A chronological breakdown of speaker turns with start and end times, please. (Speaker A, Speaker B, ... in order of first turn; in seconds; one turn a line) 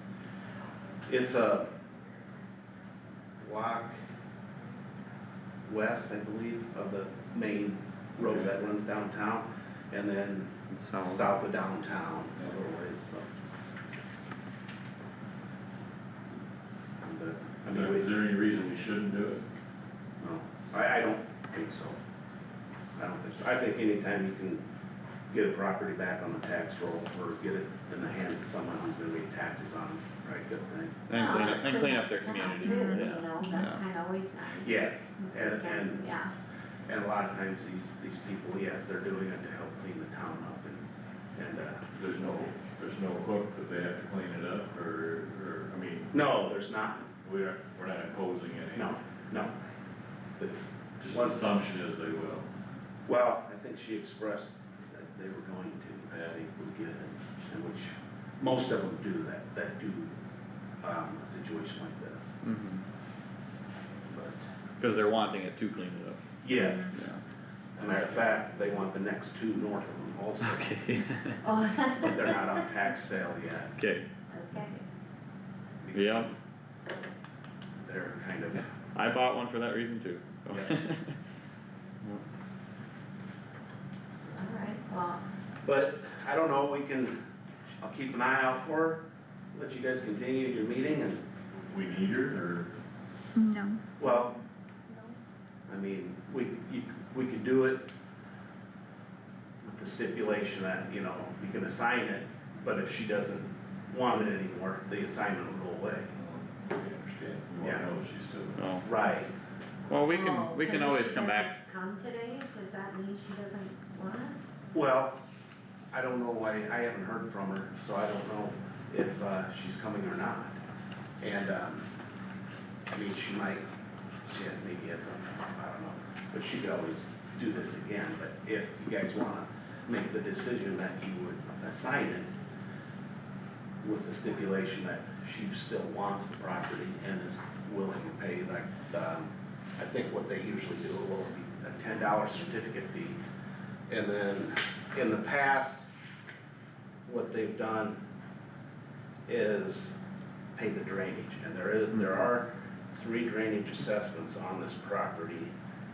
Speaker A: 1.1-1.7
Speaker A: 3.4-4.0
Speaker A: 5.7-13.3
Speaker B: 10.7-11.3
Speaker A: 17.0-18.1
Speaker C: 17.7-19.4
Speaker A: 20.2-22.0
Speaker A: 23.0-24.6
Speaker A: 25.3-31.0
Speaker B: 31.1-33.8
Speaker D: 31.1-36.3
Speaker A: 34.6-36.1
Speaker A: 36.9-40.8
Speaker A: 41.4-42.0
Speaker C: 42.0-46.1
Speaker A: 46.1-47.1
Speaker C: 47.2-48.9
Speaker A: 48.7-49.5
Speaker A: 50.4-51.4
Speaker C: 51.0-52.5
Speaker A: 53.1-60.1
Speaker A: 60.8-62.4
Speaker B: 62.4-62.8
Speaker A: 64.1-64.4
Speaker B: 64.8-66.2
Speaker A: 66.4-67.0
Speaker B: 66.8-67.2
Speaker A: 67.8-70.7
Speaker B: 70.4-71.4
Speaker D: 71.4-72.6
Speaker A: 72.0-73.8
Speaker B: 73.8-74.1
Speaker D: 74.3-74.8
Speaker A: 75.8-76.4
Speaker B: 75.9-76.3
Speaker A: 77.8-78.7
Speaker B: 78.9-81.2
Speaker A: 80.5-80.8
Speaker D: 84.3-85.2
Speaker A: 85.6-87.2
Speaker A: 87.8-89.0
Speaker A: 89.5-91.2
Speaker C: 91.7-92.7
Speaker A: 94.0-94.3
Speaker A: 95.7-97.9
Speaker A: 99.6-106.2
Speaker C: 106.2-108.8
Speaker A: 107.6-107.9
Speaker B: 108.6-108.8
Speaker A: 108.8-109.3
Speaker B: 109.9-111.5
Speaker D: 110.1-114.4
Speaker A: 114.7-115.2
Speaker A: 115.9-120.6
Speaker A: 121.2-121.9
Speaker A: 122.9-123.7
Speaker A: 124.2-132.3
Speaker A: 133.8-143.2
Speaker A: 143.9-145.9
Speaker A: 147.1-148.0
Speaker A: 149.3-149.9
Speaker A: 150.6-155.5